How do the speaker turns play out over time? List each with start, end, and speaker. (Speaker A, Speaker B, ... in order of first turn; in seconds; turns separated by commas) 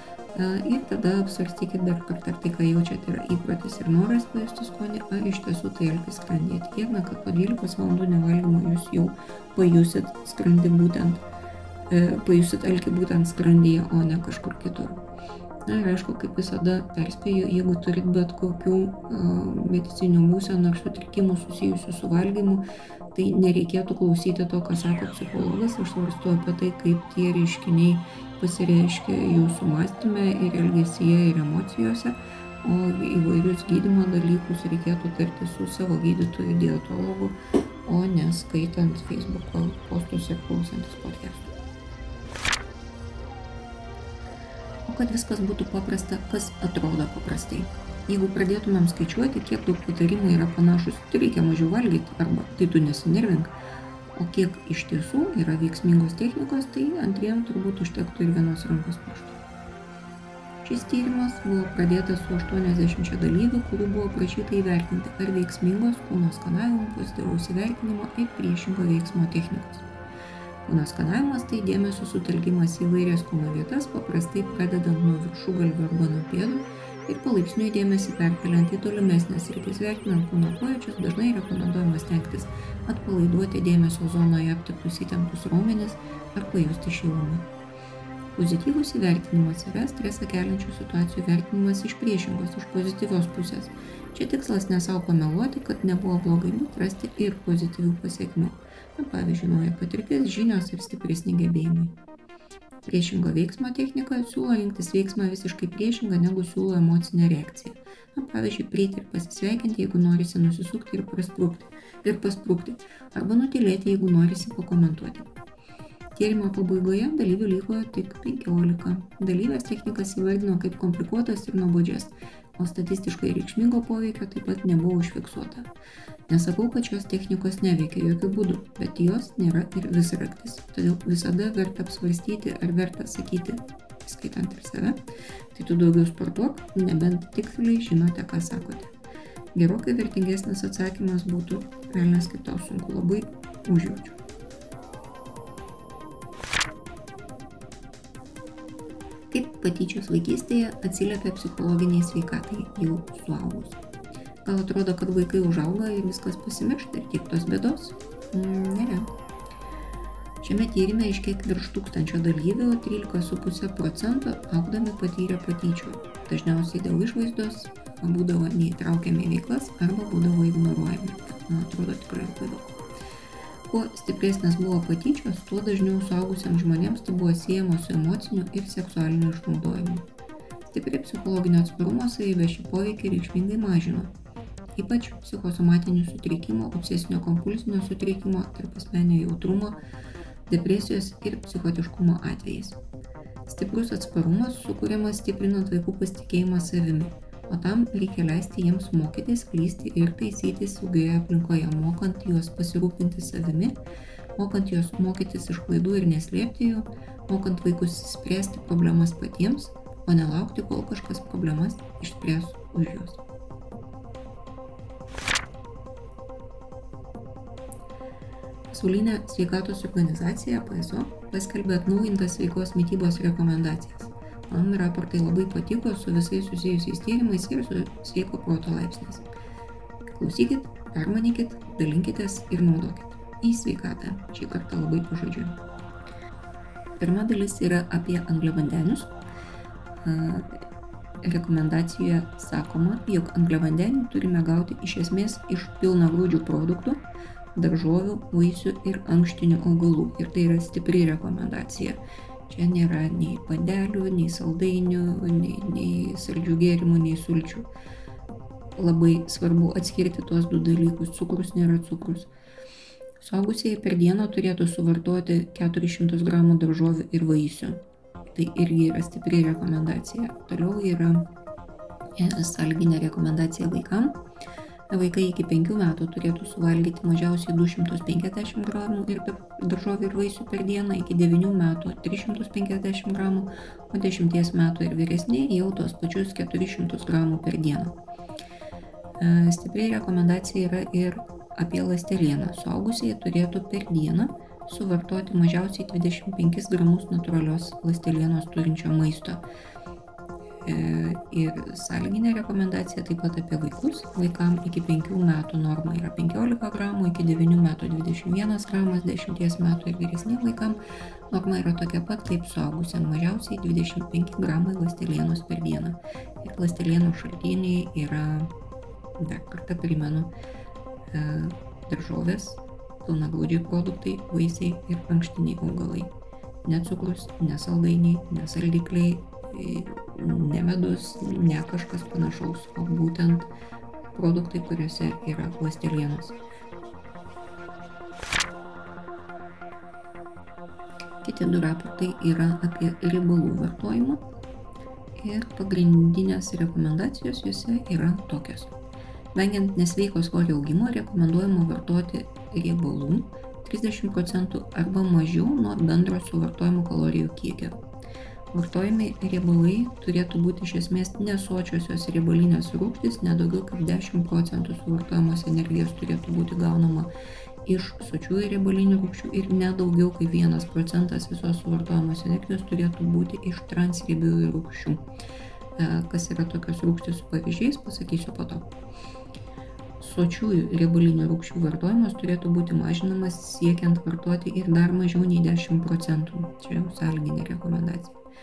Speaker A: 0.3-11.2, Speaker A: 11.9-15.0, Speaker A: 15.7-22.6, Speaker A: 23.1-41.5, Speaker A: 44.9-53.5, Speaker A: 54.1-59.4, Speaker A: 60.6-69.9, Speaker A: 70.7-87.5, Speaker A: 88.3-101.9, Speaker A: 102.8-115.3, Speaker A: 116.1-125.7, Speaker A: 126.3-138.9, Speaker A: 139.6-144.2, Speaker A: 149.3-153.8, Speaker A: 154.4-159.1, Speaker A: 160.4-172.8, Speaker A: 173.7-180.1, Speaker A: 180.6-184.1, Speaker A: 184.8-189.8, Speaker A: 190.5-192.8, Speaker A: 193.4-203.8, Speaker A: 204.4-213.2, Speaker A: 218.7-229.3, Speaker A: 230.1-235.6, Speaker A: 237.0-239.1, Speaker A: 240.0-240.6, Speaker A: 241.2-247.0, Speaker A: 247.6-257.7, Speaker A: 258.8-262.3, Speaker A: 263.2-267.8, Speaker A: 268.4-271.3, Speaker A: 272.2-274.2, Speaker A: 274.9-287.9, Speaker A: 289.2-299.4, Speaker A: 300.6-310.8, Speaker A: 311.3-318.5, Speaker A: 319.2-320.3, Speaker A: 321.1-326.1, Speaker A: 326.6-333.5, Speaker A: 334.1-336.4, Speaker A: 341.2-344.2, Speaker A: 345.2-348.7, Speaker A: 349.3-357.8, Speaker A: 358.5-367.1, Speaker A: 367.6-375.0, Speaker A: 375.8-378.7, Speaker A: 380.0-388.2